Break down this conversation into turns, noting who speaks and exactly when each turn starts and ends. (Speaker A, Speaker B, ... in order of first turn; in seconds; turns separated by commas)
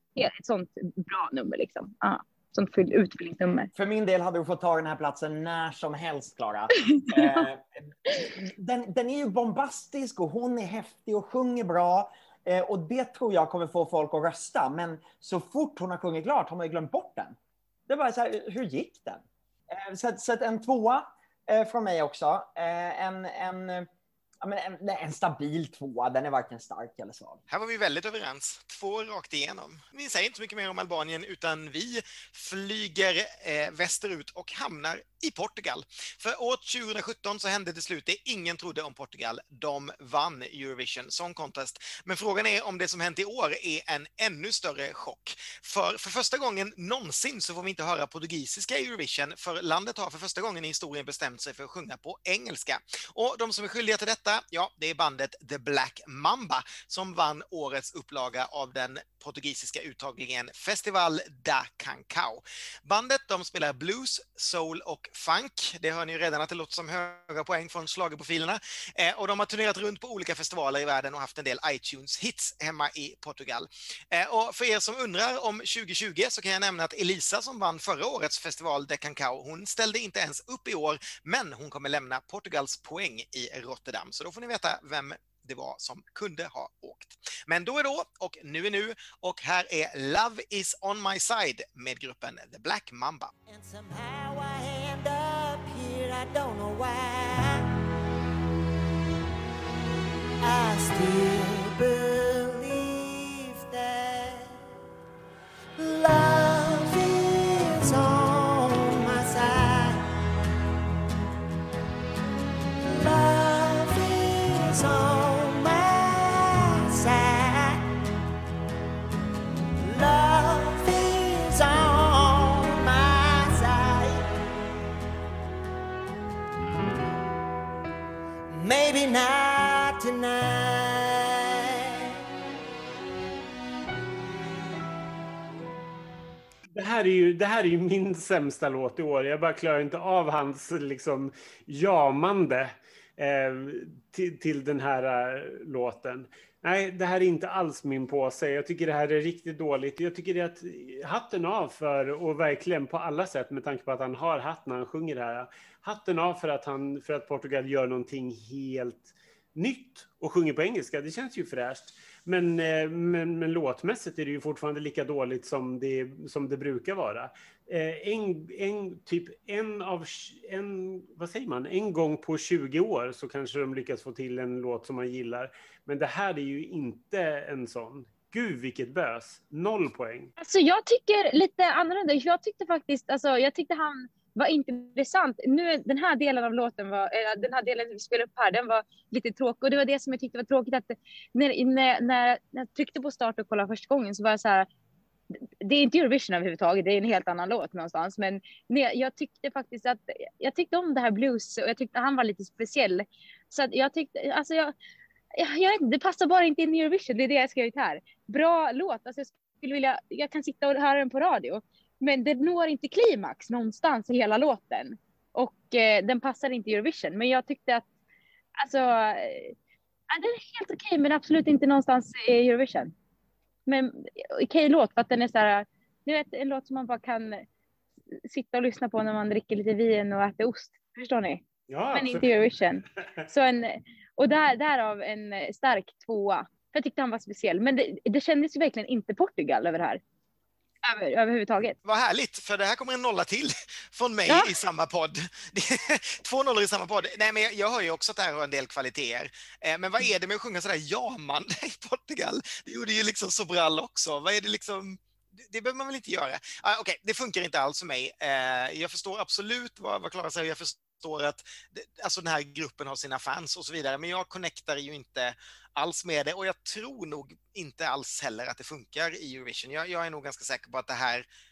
Speaker A: 0.1-3.7, Speaker B: 3.7-17.3, Speaker A: 7.0-7.5, Speaker B: 17.9-23.9, Speaker B: 24.4-27.4, Speaker C: 27.5-93.3, Speaker D: 93.5-97.7, Speaker D: 100.4-104.6, Speaker D: 105.8-110.0, Speaker D: 112.8-117.8, Speaker D: 119.8-124.3, Speaker D: 128.5-131.4, Speaker E: 136.7-180.3, Speaker A: 180.4-194.7, Speaker A: 195.3-204.7, Speaker A: 205.4-217.8, Speaker A: 218.6-219.5, Speaker A: 220.1-222.9, Speaker A: 223.7-227.4, Speaker A: 228.2-240.0, Speaker E: 231.7-232.3, Speaker A: 240.8-241.8, Speaker C: 241.8-271.2